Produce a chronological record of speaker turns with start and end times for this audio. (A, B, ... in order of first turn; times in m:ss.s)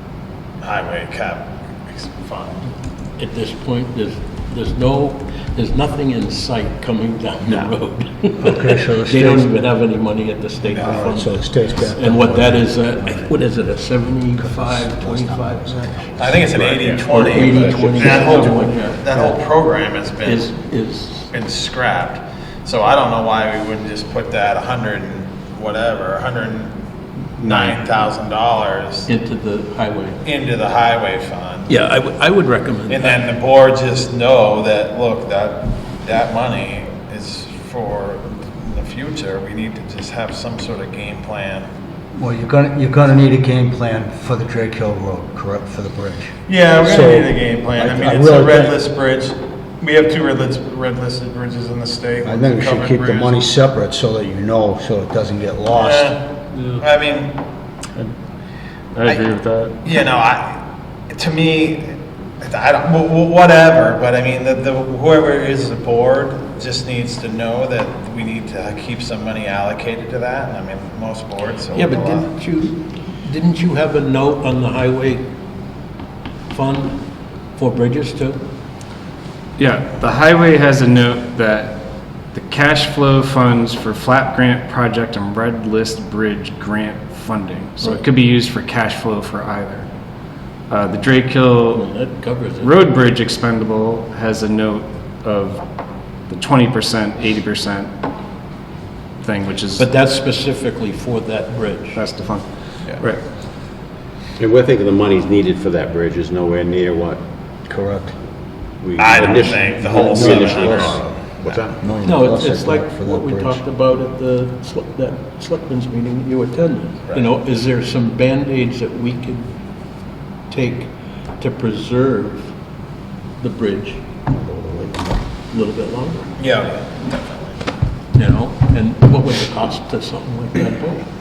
0:00.6-0:02.7 A
0:03.2-0:16.0 B
0:08.4-0:09.5 C
0:10.6-0:11.2 A
0:10.8-0:13.3 C
0:14.4-0:16.5 C
0:16.2-0:20.5 A
0:16.6-0:17.9 D
0:17.1-0:19.0 B
0:17.9-0:18.5 C
0:20.2-0:21.3 B
0:21.3-0:26.8 A
0:27.4-0:29.1 A
0:27.4-0:27.8 E
0:29.1-0:30.2 B
0:30.2-0:31.8 A
0:31.7-0:33.2 B
0:32.9-0:41.7 A
0:42.2-0:48.8 C
0:46.5-0:53.4 A
0:52.2-0:56.2 C
0:55.7-0:56.2 A
0:56.8-0:57.4 A
0:59.0-0:59.8 E
0:59.8-1:12.3 A
1:11.7-1:15.2 B
1:16.5-1:17.0 B
1:17.6-1:18.4 B
1:19.6-1:29.9 E
1:30.7-1:31.9 E
1:31.7-1:32.8 B
1:32.6-1:35.6 E
1:36.3-1:37.9 E
1:39.2-1:39.9 E
1:39.8-1:42.0 B
1:41.9-1:43.2 E
1:44.4-1:47.2 D
1:47.7-1:48.2 C
1:48.8-1:51.8 D
1:49.0-1:51.6 A
1:49.7-1:53.6 C
1:52.0-1:59.5 B
1:57.1-1:57.3 A
2:00.5-2:02.5 B
2:03.4-2:06.3 B
2:06.4-2:07.6 A
2:08.2-2:11.0 B